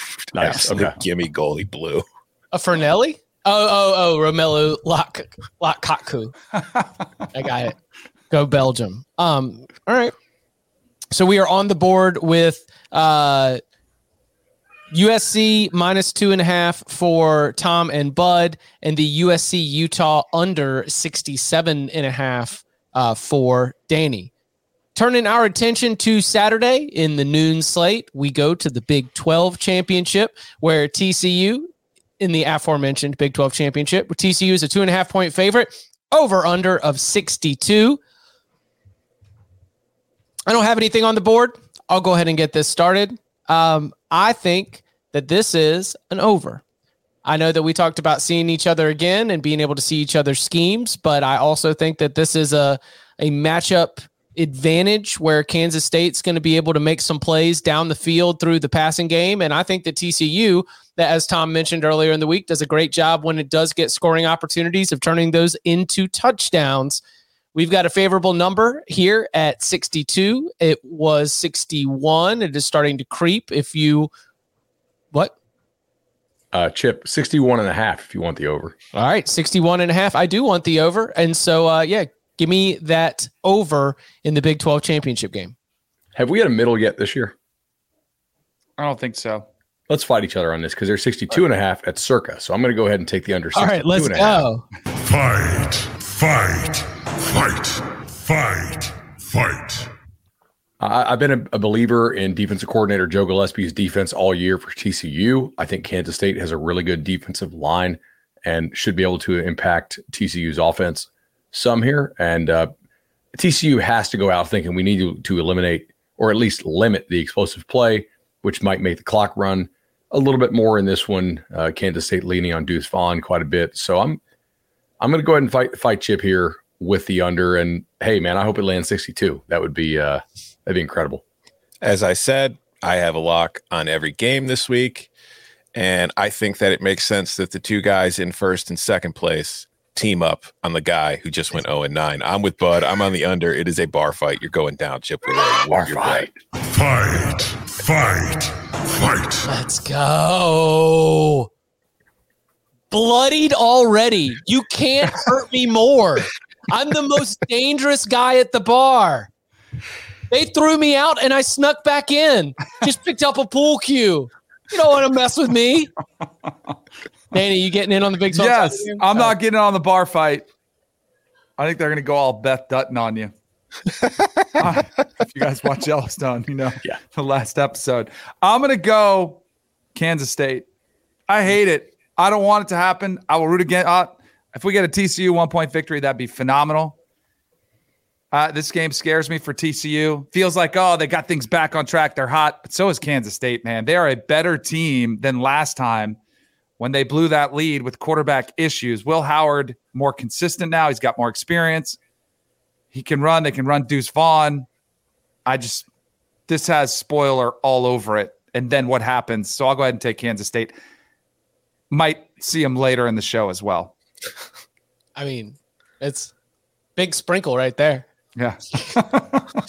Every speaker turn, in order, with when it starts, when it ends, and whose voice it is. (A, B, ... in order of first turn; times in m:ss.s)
0:00.2-0:02.0 A
0:00.3-0:01.0 B
0:02.5-0:06.3 C
0:07.3-0:07.8 C
0:08.3-0:10.1 C
0:11.1-0:13.6 C
0:14.9-0:24.3 C
0:24.9-0:38.0 C
0:40.5-0:46.6 C
0:47.2-1:07.0 C
1:07.5-1:14.1 C
1:16.5-1:18.8 B
1:18.9-1:25.5 C
1:26.1-1:27.3 B
1:28.8-1:29.4 D
1:29.9-1:34.5 B
1:33.5-1:34.6 C
1:34.9-1:39.9 E
1:40.8-1:52.7 B
1:53.3-2:04.2 B
2:05.0-2:11.2 B
2:11.8-2:15.1 A
2:15.7-2:26.3 A
2:25.7-2:26.4 B
2:26.7-2:29.5 E
2:29.5-2:31.5 C
2:32.9-2:39.3 C
2:40.3-2:45.9 C
2:47.3-2:49.3 C
2:48.3-2:50.4 D
2:51.6-2:53.3 D
2:54.6-2:59.4 D
2:59.9-3:00.6 D
3:01.3-3:07.0 D
3:08.3-3:16.2 D
3:16.8-3:22.0 D
3:22.9-3:24.7 D
3:25.4-3:25.8 D
3:26.5-3:30.7 D
3:31.9-3:33.9 D
3:35.2-3:36.3 C
3:37.0-3:38.0 C
3:38.4-3:39.4 D